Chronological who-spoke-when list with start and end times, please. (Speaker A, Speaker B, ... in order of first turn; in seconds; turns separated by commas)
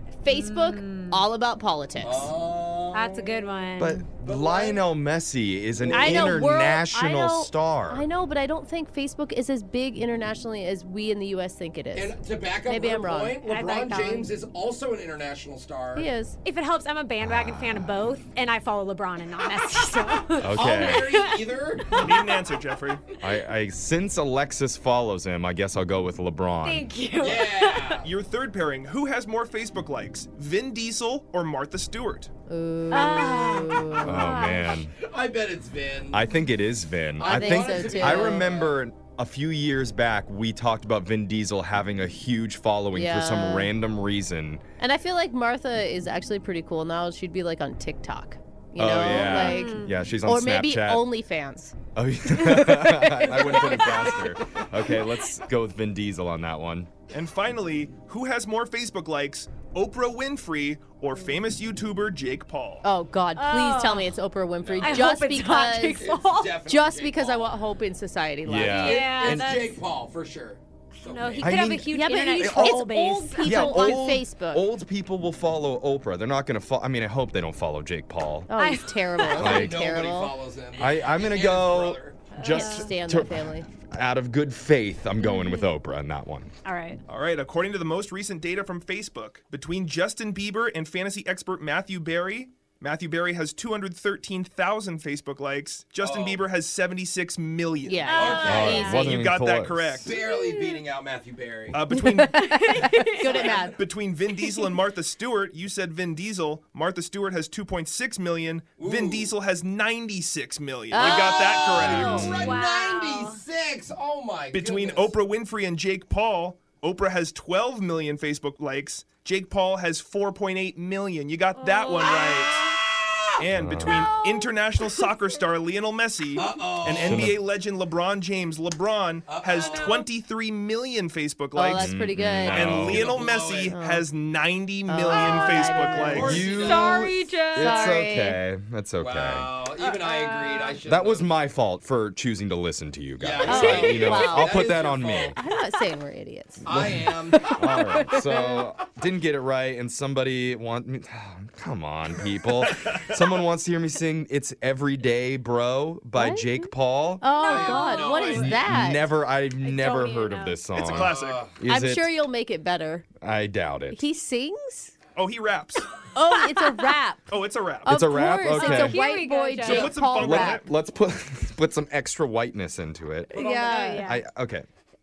Speaker A: 0.2-2.3, Speaker B: 0.3-1.2, Speaker C: 1.9-3.5, Speaker B: 2.9-4.0, Speaker D: 3.8-8.1, Speaker C: 4.2-4.8, Speaker C: 5.8-6.4, Speaker A: 5.9-13.4, Speaker C: 11.9-16.1, Speaker B: 13.4-14.3, Speaker A: 15.9-16.4, Speaker B: 16.4-22.0, Speaker D: 17.2-18.1, Speaker D: 20.4-21.1, Speaker C: 20.5-22.1, Speaker E: 21.9-23.0, Speaker D: 23.2-26.9, Speaker B: 26.6-28.0, Speaker C: 27.2-28.1, Speaker E: 28.0-32.3, Speaker A: 32.5-34.2, Speaker B: 32.9-34.8, Speaker D: 34.0-34.9, Speaker C: 34.9-36.3, Speaker D: 36.1-44.6, Speaker C: 37.2-38.8, Speaker A: 37.2-38.5, Speaker A: 42.9-43.7, Speaker A: 44.8-51.7, Speaker D: 48.8-51.0, Speaker B: 49.0-49.9, Speaker D: 51.9-56.9, Speaker A: 52.5-54.2, Speaker B: 53.2-54.1, Speaker E: 57.1-62.8, Speaker A: 62.8-66.0, Speaker B: 63.4-64.1, Speaker C: 64.6-65.2, Speaker B: 64.8-66.6, Speaker C: 66.0-67.6, Speaker A: 66.6-69.1, Speaker D: 68.4-69.6, Speaker C: 68.6-71.7, Speaker B: 68.7-69.8, Speaker B: 71.0-74.0, Speaker D: 71.4-72.8, Speaker A: 71.9-74.6, Speaker D: 73.4-78.5, Speaker A: 78.5-80.3, Speaker B: 78.6-79.6, Speaker C: 79.3-82.3, Speaker D: 79.3-79.8, Speaker D: 80.8-86.5, Speaker B: 82.3-82.9, Speaker A: 82.4-83.7, Speaker B: 85.2-85.7, Speaker B: 86.6-87.0, Speaker E: 87.1-100.1, Speaker C: 96.0-96.4, Speaker A: 97.8-99.2, Speaker B: 98.0-99.2, Speaker C: 98.1-98.8, Speaker D: 98.4-100.0, Speaker C: 100.0-101.8, Speaker B: 100.2-100.8, Speaker E: 101.7-102.7, Speaker A: 101.9-103.8, Speaker B: 102.2-103.6, Speaker C: 102.9-103.8, Speaker E: 103.7-112.3, Speaker C: 108.8-109.3, Speaker A: 110.9-112.3, Speaker C: 110.9-115.2, Speaker D: 111.8-112.3, Speaker B: 111.9-113.4, Speaker E: 114.5-122.8, Speaker B: 121.6-122.5, Speaker C: 122.8-123.2, Speaker E: 123.4-136.4, Speaker D: 123.5-124.1, Speaker C: 123.8-124.3, Speaker C: 126.3-127.3, Speaker D: 126.9-127.4, Speaker C: 129.3-130.0, Speaker B: 129.6-130.0, Speaker A: 131.5-134.0, Speaker D: 131.7-133.2, Speaker C: 132.8-133.7, Speaker A: 134.8-136.8, Speaker B: 135.1-137.9, Speaker C: 136.0-137.1, Speaker D: 136.2-139.5, Speaker A: 137.5-138.4, Speaker C: 138.9-141.3, Speaker B: 139.8-140.8, Speaker D: 140.8-145.4, Speaker C: 143.2-145.4, Speaker A: 143.4-146.7, Speaker C: 146.6-147.6, Speaker D: 146.7-157.2, Speaker B: 147.3-148.6, Speaker A: 156.1-159.1, Speaker B: 157.3-158.7, Speaker C: 157.4-158.6, Speaker D: 158.4-162.1, Speaker B: 159.6-160.6, Speaker E: 160.7-161.5, Speaker C: 161.0-161.5, Speaker A: 161.6-163.1, Speaker D: 163.2-164.0, Speaker A: 163.9-165.0, Speaker E: 165.1-165.9, Speaker A: 166.1-167.3, Speaker E: 167.3-168.0, Speaker A: 167.8-170.6, Speaker D: 167.8-169.0, Speaker B: 168.5-170.0, Speaker E: 169.6-170.7, Speaker D: 170.1-174.7, Speaker A: 173.3-174.2, Speaker B: 173.3-174.2